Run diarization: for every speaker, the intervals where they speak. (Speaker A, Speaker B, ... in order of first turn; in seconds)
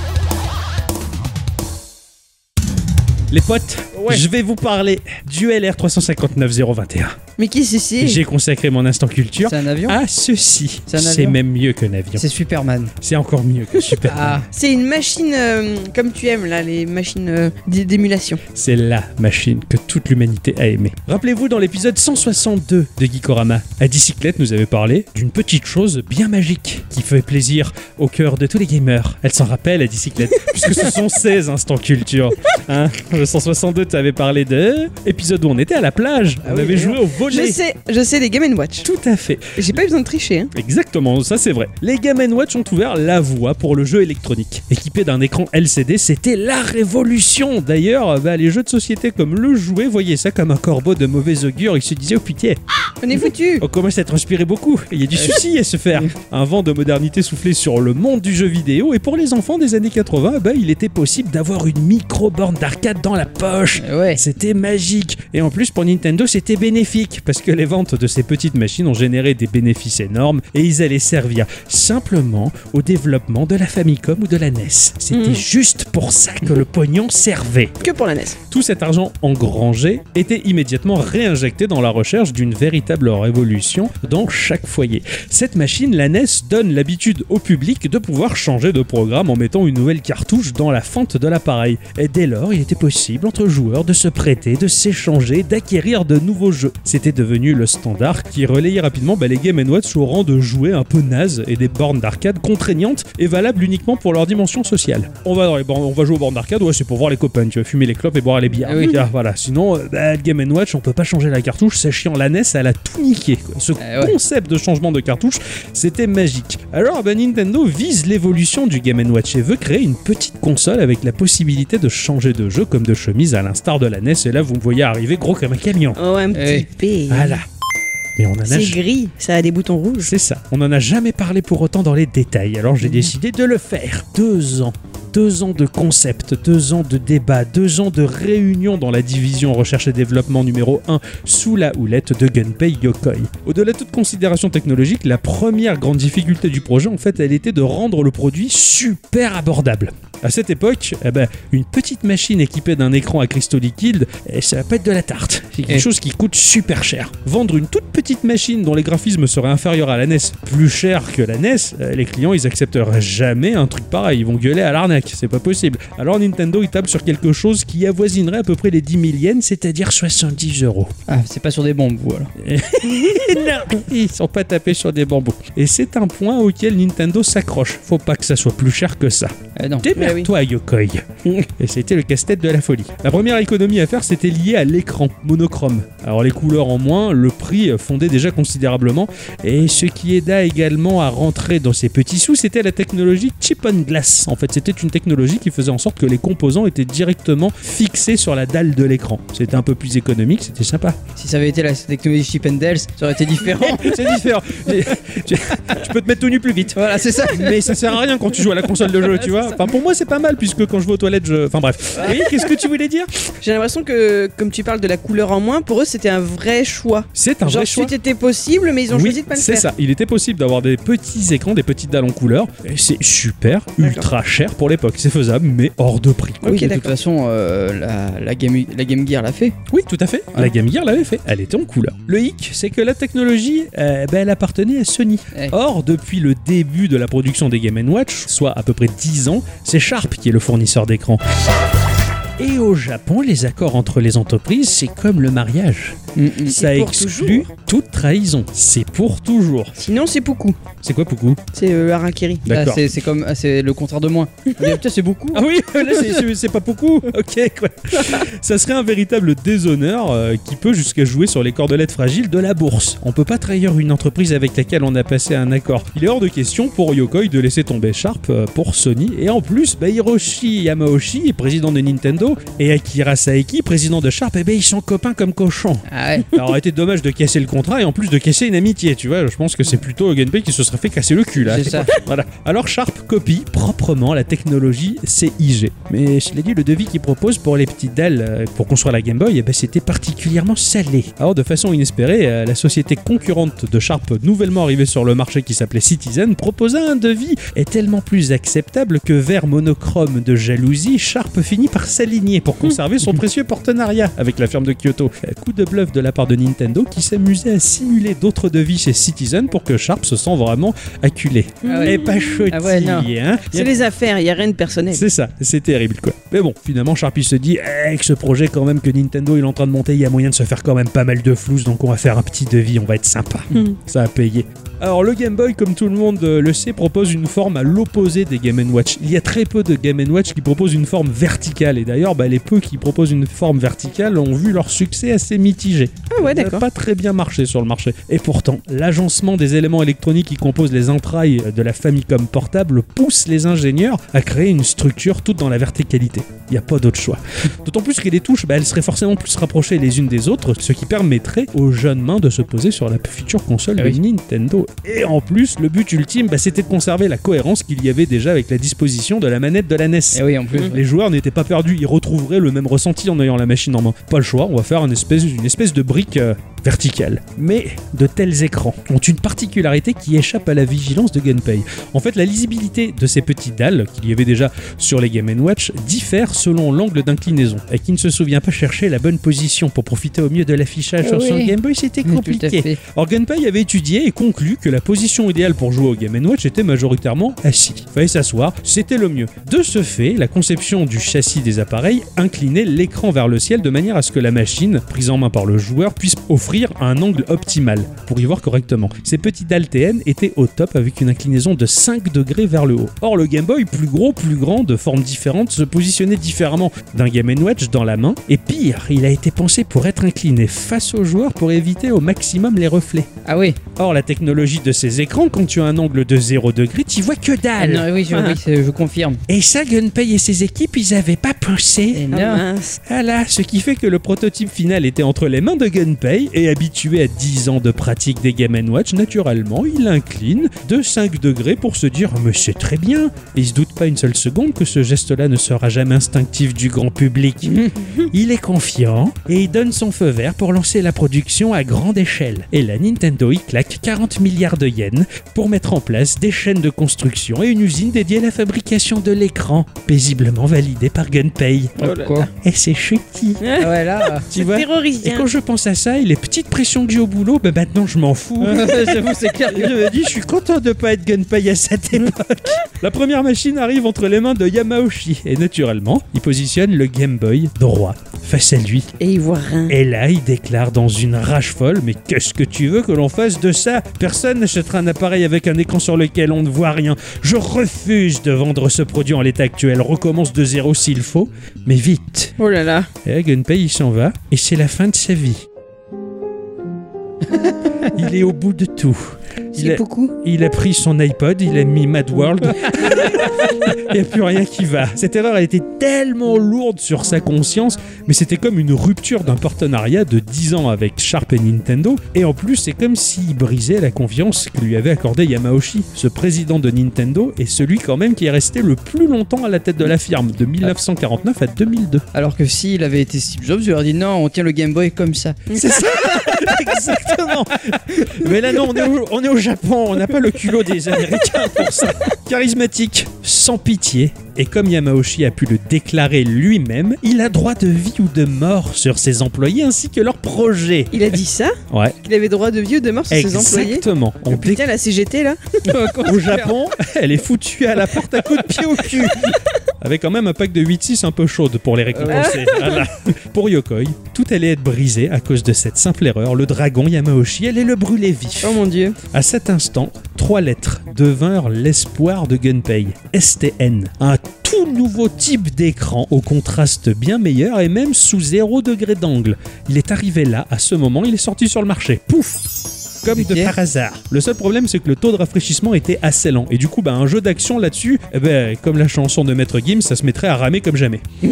Speaker A: 3.3-7.2, 8.0-12.2, 13.0-14.4, 18.5-37.6, 38.8-39.7, 40.5-52.6, 53.6-77.8, 78.5-126.0, 127.1-127.5, 128.2-128.8, 130.0-170.9, 172.4-201.0, 203.5-213.1, 217.1-217.9, 218.9-226.8, 229.7-241.2, 242.4-249.7, 250.8-251.4, 252.4-252.8, 255.3-313.7, 314.9-413.2, 413.8-417.9, 419.3-422.1, 422.9-453.5, 454.3-468.9, 469.7-482.4, 483.0-485.4, 487.9-512.0, 515.5-531.1, 531.7-532.0, 533.1-534.6, 536.0-548.6, 549.1-562.4, 563.0-571.0
Speaker B: 7.4-8.2, 14.5-18.4, 37.2-38.9, 39.5-40.5, 53.0-53.6, 75.1-75.5, 77.8-78.4, 126.0-127.4, 128.4-130.1, 179.9-180.3, 213.4-219.7, 223.8-224.1, 226.4-226.9, 246.5-247.5, 249.8-250.6, 251.5-252.4, 311.6-312.4, 313.5-315.1, 323.5-323.8, 336.1-336.7, 418.1-418.4, 422.1-422.8, 451.8-452.2, 453.4-455.3, 469.0-469.8, 482.4-482.9, 489.6-490.1, 515.5-516.4, 530.9-536.1, 542.1-542.8, 548.4-549.0
Speaker C: 9.4-10.0, 10.9-11.4, 12.2-12.9, 14.1-14.5, 36.4-37.0, 55.1-55.4, 63.8-64.2, 108.6-109.0, 113.8-114.2, 126.3-126.7, 171.1-172.3, 179.6-179.9, 201.2-204.1, 206.7-207.9, 226.4-229.6, 246.2-246.6, 252.5-256.2, 275.9-276.4, 281.4-281.9, 311.7-313.1, 360.1-360.8, 381.0-381.5, 382.0-382.8, 413.2-413.6, 417.6-419.2, 421.9-422.4, 437.4-437.8, 451.8-452.3, 453.6-454.3, 458.4-459.9, 512.1-515.5, 535.7-536.5, 542.0-542.4, 563.1-563.5